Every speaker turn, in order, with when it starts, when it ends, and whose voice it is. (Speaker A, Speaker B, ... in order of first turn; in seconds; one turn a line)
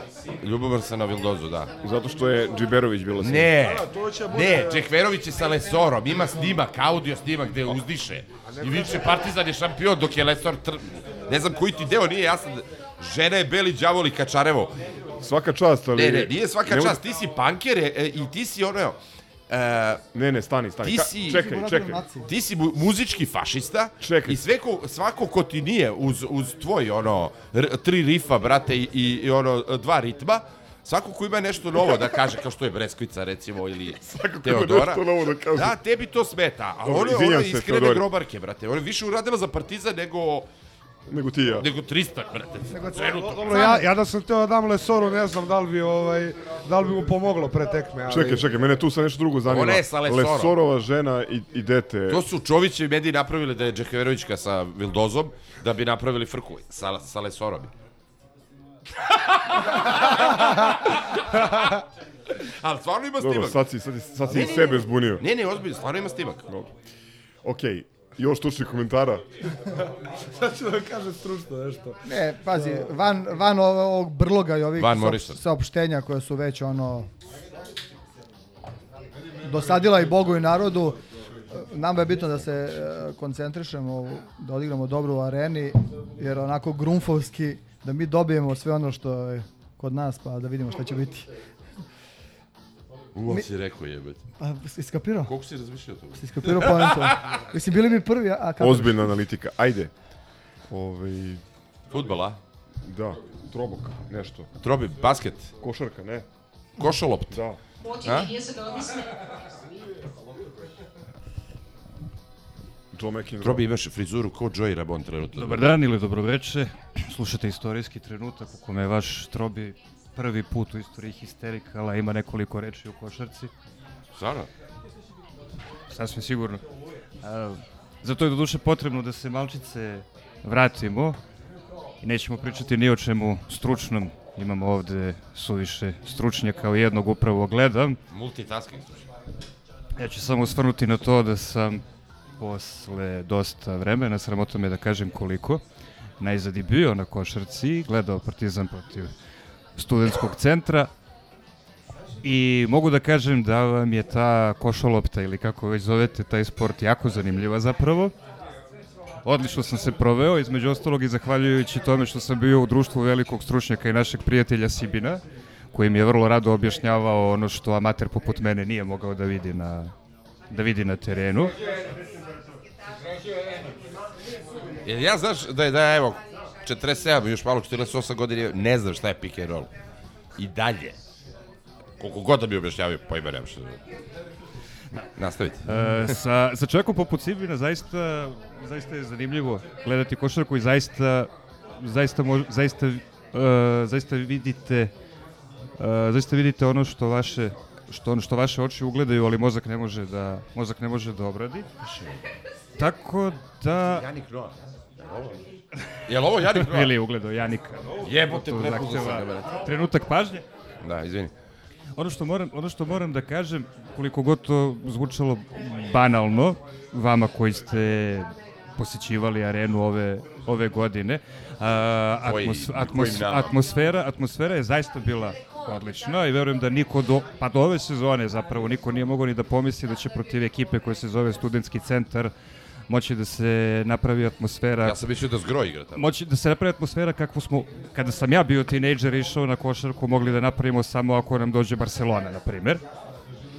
Speaker A: 0.4-1.7
Speaker B: 1.8-3.5
Speaker A: 3.2-14.8
Speaker C: 3.6-4.9
Speaker C: 8.4-9.2
Speaker B: 15.2-17.0
Speaker A: 16.0-19.0
Speaker A: 19.5-20.0
Speaker B: 20.1-22.0
Speaker A: 20.8-21.5
Speaker D: 21.3-22.3
Speaker A: 22.3-40.5
Speaker B: 24.0-24.4
Speaker B: 34.0-35.7
Speaker B: 36.8-38.0
Speaker B: 41.1-41.7
Speaker A: 41.6-43.8
Speaker D: 42.7-43.8
Speaker C: 43.0-48.5
Speaker B: 48.1-52.2
Speaker A: 49.5-50.6
Speaker A: 52.1-57.7
Speaker A: 59.0-61.7
Speaker A: 62.4-63.6
Speaker B: 63.2-65.2
Speaker A: 64.3-66.5
Speaker B: 67.4-69.2
Speaker C: 70.3-72.0
Speaker D: 72.0-77.1
Speaker C: 72.5-72.9
Speaker A: 74.8-75.4
Speaker D: 79.4-81.0
Speaker D: 81.5-91.3
Speaker A: 93.2-94.2
Speaker D: 94.4-95.3
Speaker A: 95.3-97.4
Speaker D: 96.2-99.2
Speaker B: 98.6-99.9
Speaker B: 100.7-101.4
Speaker A: 101.9-102.4
Speaker B: 102.8-104.5
Speaker A: 104.6-105.5
Speaker B: 105.6-106.3
Speaker A: 106.8-107.4
Speaker B: 107.3-107.6
Speaker A: 108.0-108.3
Speaker B: 112.9-113.7
Speaker A: 113.4-115.8
Speaker E: 115.4-123.5
Speaker A: 124.2-124.5
Speaker E: 125.9-126.6
Speaker E: 127.2-131.2
Speaker E: 132.0-138.0
Speaker A: 138.1-139.1
Speaker E: 140.0-141.8
Speaker E: 142.4-145.6
Speaker E: 146.2-149.1
Speaker E: 149.8-150.9
Speaker E: 152.2-158.1
Speaker E: 159.2-165.2
Speaker E: 165.7-169.9
Speaker E: 170.5-171.5
Speaker A: 174.8-179.7
Speaker A: 180.4-181.0
Speaker A: 182.0-183.8
Speaker A: 185.2-185.7
Speaker E: 185.7-191.3
Speaker E: 191.8-194.9
Speaker E: 195.8-201.7
Speaker A: 201.8-202.2
Speaker E: 202.8-204.1
Speaker A: 203.8-205.4
Speaker A: 206.1-206.9
Speaker E: 206.5-210.4
Speaker A: 208.0-209.7
Speaker A: 210.8-211.3
Speaker E: 212.0-232.3
Speaker A: 222.2-223.6
Speaker E: 232.9-235.0
Speaker A: 234.8-236.1
Speaker E: 235.9-242.8